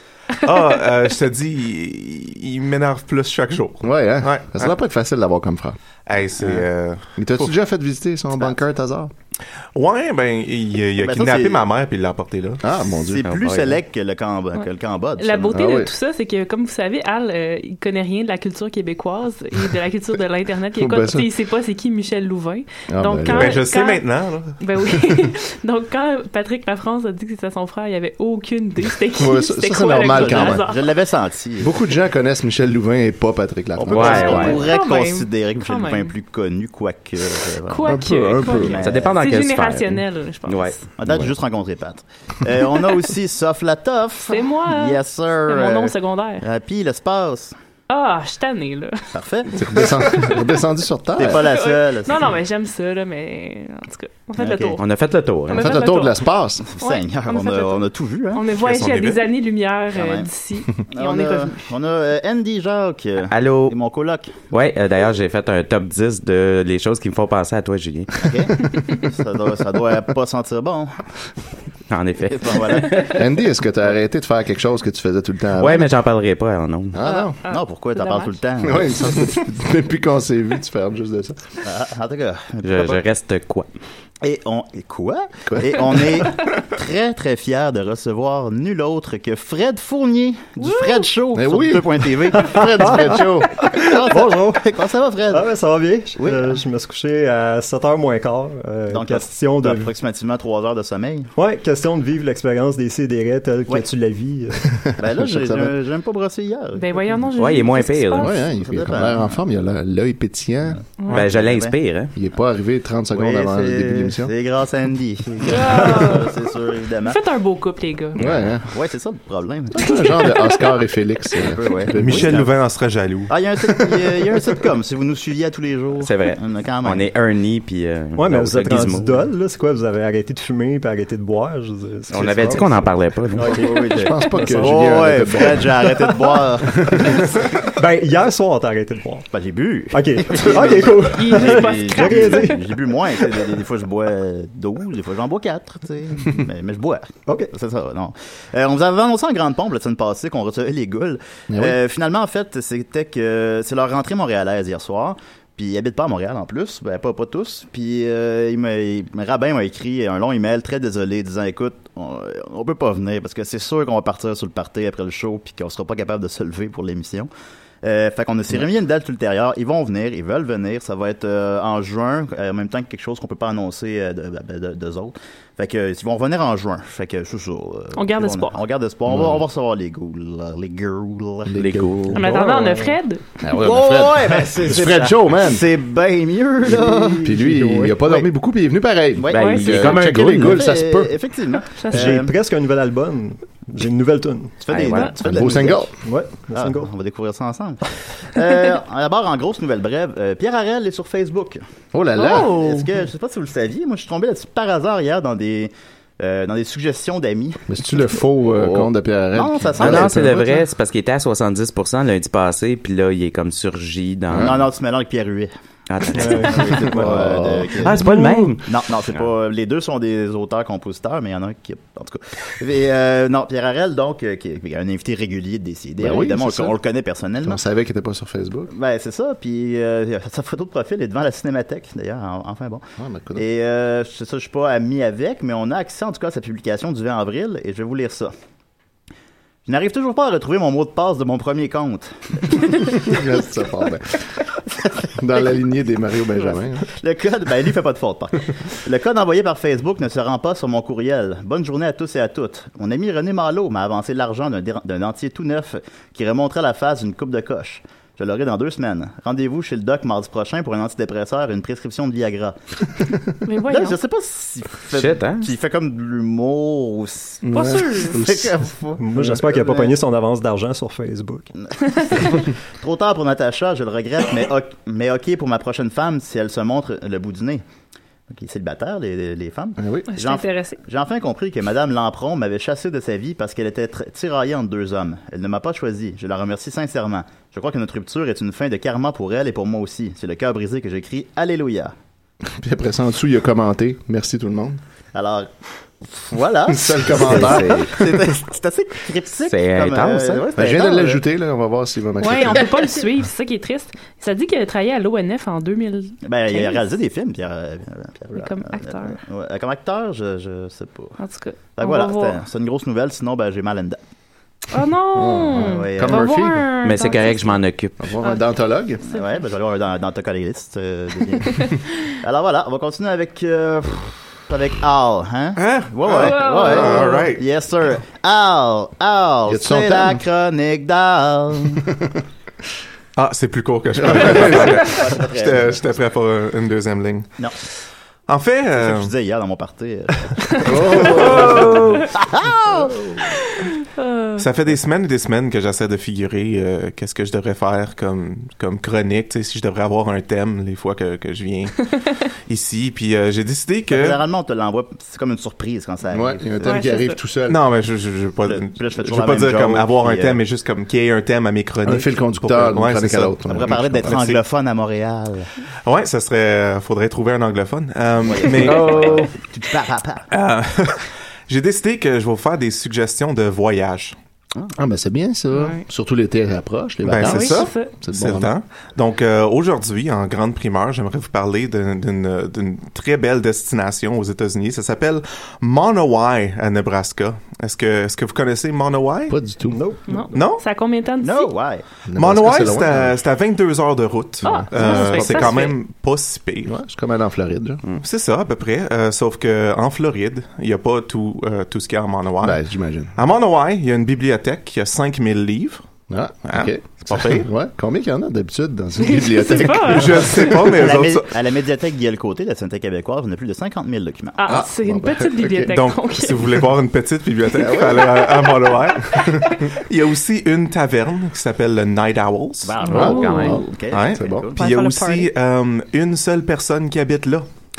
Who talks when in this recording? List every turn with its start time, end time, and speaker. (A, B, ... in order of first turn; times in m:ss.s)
0:00.4-0:04.7 A
0:03.8-0:05.8 B
0:06.1-0:07.5 A
0:06.4-0:06.6 B
0:07.2-0:09.1 B
0:09.7-0:12.6 A
0:11.0-0:11.7 C
0:12.6-0:13.3 B
0:13.1-0:15.6 C
0:13.2-0:13.8 D
0:15.2-0:24.0 E
0:15.5-0:15.9 B
0:20.7-0:21.3 B
0:22.9-0:23.6 B
0:23.3-0:24.6 A
0:24.6-0:30.8 E
0:29.1-0:30.6 B
0:30.0-0:31.7 C
0:31.6-0:34.6 B
0:33.9-0:34.7 D
0:33.9-0:39.2 C
0:34.0-0:36.1 E
0:37.7-0:40.8 E
0:37.8-0:38.8 B
0:38.8-0:40.8 D
0:41.0-0:47.5 C
0:41.0-0:41.3 B
0:44.3-0:46.4 E
0:47.9-0:49.1 E
0:49.1-0:49.9 C
0:49.6-0:51.5 B
0:50.2-0:50.4 E
0:51.2-0:52.3 C
0:51.2-0:54.8 E
0:54.4-0:54.8 C
0:54.8-0:55.7 D
0:55.5-0:56.2 E
0:55.5-0:56.6 B
0:56.7-0:58.4 C
0:56.8-1:01.7 E
0:58.6-0:59.2 A
1:00.0-1:00.3 C
1:00.9-1:04.3 C
1:03.3-1:03.8 D
1:04.5-1:08.3 D
1:08.2-1:11.0 C
1:11.9-1:12.7 D
1:12.3-1:13.2 C
1:13.1-1:15.9 B
1:15.6-1:17.0 D
1:16.9-1:17.4 B
1:17.0-1:18.4 E
1:17.5-1:19.3 C
1:18.6-1:21.4 B
1:21.6-1:23.0 C
1:22.6-1:23.7 D
1:24.2-1:33.2 C
1:25.5-1:25.8 B
1:30.6-1:31.1 E
1:31.3-1:33.9 B
1:32.4-1:33.2 F
1:33.7-1:35.5 C
1:33.8-1:34.7 F
1:35.3-1:39.9 F
1:36.2-1:36.6 C
1:38.9-1:41.3 C
1:41.4-1:44.7 F
1:44.8-1:45.7 B
1:45.0-1:47.3 C
1:46.8-1:48.3 E
1:47.4-1:48.3 D
1:48.2-1:50.8 B
1:48.6-1:49.4 C
1:51.1-1:51.8 C
1:51.1-1:52.1 D
1:52.2-1:54.3 B
1:53.1-1:57.2 C
1:55.5-1:56.4 E
1:57.0-1:58.2 E
1:58.2-1:58.7 B
1:58.2-2:00.1 C
1:59.7-2:02.4 B
1:59.8-2:00.7 E
2:01.4-2:02.5 C
2:02.0-2:03.3 A
2:03.3-2:07.0 C
2:03.8-2:04.3 B
2:06.0-2:09.2 D
2:08.2-2:16.1 F
2:12.1-2:13.6 D
2:13.4-2:17.4 C
2:13.8-2:15.9 B
2:17.0-2:19.3 F
2:19.3-2:47.3 C
2:19.9-2:22.7 F
2:20.8-2:22.6 E
2:27.3-2:27.5 F
2:31.5-2:31.8 B
2:47.8-3:01.6 C
2:58.0-2:58.6 E
2:59.1-2:59.4 B
3:01.5-3:02.2 B
3:01.6-3:02.2 D
3:02.1-3:03.0 F
3:02.1-3:03.2 E
3:03.4-3:05.6 B
3:03.5-3:08.3 C
3:06.8-3:07.7 F
3:07.2-3:11.2 B
3:09.2-3:12.3 C
3:09.3-3:10.7 D
3:09.3-3:09.7 E
3:11.8-3:12.2 E
3:11.9-3:14.6 F
3:14.6-3:15.9 C
3:14.7-3:15.4 D
3:14.8-3:15.2 E
3:15.2-3:15.9 B
3:16.0-3:16.9 F
3:16.5-3:21.6 C
3:21.9-3:22.8 B
3:22.2-3:27.6 C
3:22.2-3:22.9 E
3:27.7-3:30.7 B
3:29.4-3:30.2 C
3:29.8-3:34.6 D
3:34.3-3:34.6 B
3:34.3-3:35.5 C
3:35.9-3:36.9 D
3:36.0-3:38.1 C
3:36.2-3:37.2 F
3:36.9-3:38.0 B
3:37.8-3:39.3 D
3:38.0-3:38.6 E
3:38.7-3:47.6 C
3:46.0-3:46.8 B
3:47.4-3:48.7 B
3:48.7-3:52.8 C
3:53.0-3:53.4 B
3:53.4-3:58.3 C
3:59.7-4:03.2 C
4:02.9-4:04.2 B
4:04.8-4:05.5 C
4:05.2-4:06.9 B
4:06.8-4:22.6 C
4:23.5-4:24.0 E
4:23.7-4:29.9 C
4:24.9-4:25.5 D
4:27.4-4:28.5 B
4:27.5-4:28.2 E
4:29.0-4:31.5 F
4:31.6-4:37.6 C
4:38.3-4:51.9 C
4:39.8-4:40.1 B
4:40.1-4:40.8 E
4:52.5-4:54.8 B
4:55.1-4:55.5 C
4:56.0-5:01.0 C
4:56.7-4:58.3 B
4:57.5-4:57.9 D
4:59.5-5:01.2 D
5:00.6-5:02.9 B
5:02.2-5:06.9 E
5:06.3-5:11.2 C
5:08.3-5:09.2 E
5:11.2-5:12.4 E
5:11.8-5:14.0 C
5:14.7-5:17.6 E
5:15.1-5:16.7 B
5:15.6-5:16.4 C
5:16.8-5:18.0 D
5:18.0-5:19.0 B
5:19.0-5:31.8 C
5:25.6-5:27.4 A
5:26.1-5:27.2 E
5:29.5-5:30.2 B
5:31.8-5:32.1 B
5:33.2-5:37.3 A
5:34.0-5:34.9 B
5:34.2-5:36.0 C
5:38.3-5:39.1 A
5:38.8-5:43.3 C
5:40.6-5:41.8 B
5:41.3-5:41.7 A
5:44.0-5:44.4 E
5:44.4-5:51.9 A
5:52.5-5:54.2 A
5:53.9-5:56.9 C
5:56.1-5:57.6 B
5:56.6-5:57.1 E
5:57.5-6:04.4 A
5:58.4-6:00.4 C
6:01.8-6:04.2 B
6:03.5-6:05.5 C
6:05.9-6:09.2 A
6:08.2-6:10.3 C
6:08.6-6:09.3 D
6:10.3-6:14.2 A
6:14.8-6:18.5 B
6:15.5-6:15.8 E
6:17.0-6:29.4 A
6:17.2-6:17.9 E
6:29.3-6:29.8 B
6:29.7-6:30.3 F
6:30.1-6:31.5 E
6:30.3-6:30.6 A
6:31.2-6:31.8 C
6:32.1-6:33.2 B
6:32.2-6:36.7 A
6:34.4-6:35.8 E
6:34.5-6:35.5 B
6:36.7-6:37.8 B
6:37.9-6:42.6 A
6:42.4-6:43.1 B
6:43.2-6:45.8 A
6:46.1-6:50.6 B
6:46.5-6:47.5 A
6:49.0-6:50.8 E
6:49.8-6:51.3 A
6:50.8-6:54.6 C
6:54.4-6:56.5 E
6:54.5-6:55.8 B
6:55.7-7:02.8 A
6:57.6-6:58.3 B
6:57.6-6:58.3 E
6:59.1-6:59.5 B
7:02.6-7:04.6 C
7:02.8-7:03.7 E
7:02.9-7:04.5 B
7:03.0-7:03.6 D
7:03.9-7:07.5 A
7:04.6-7:05.3 E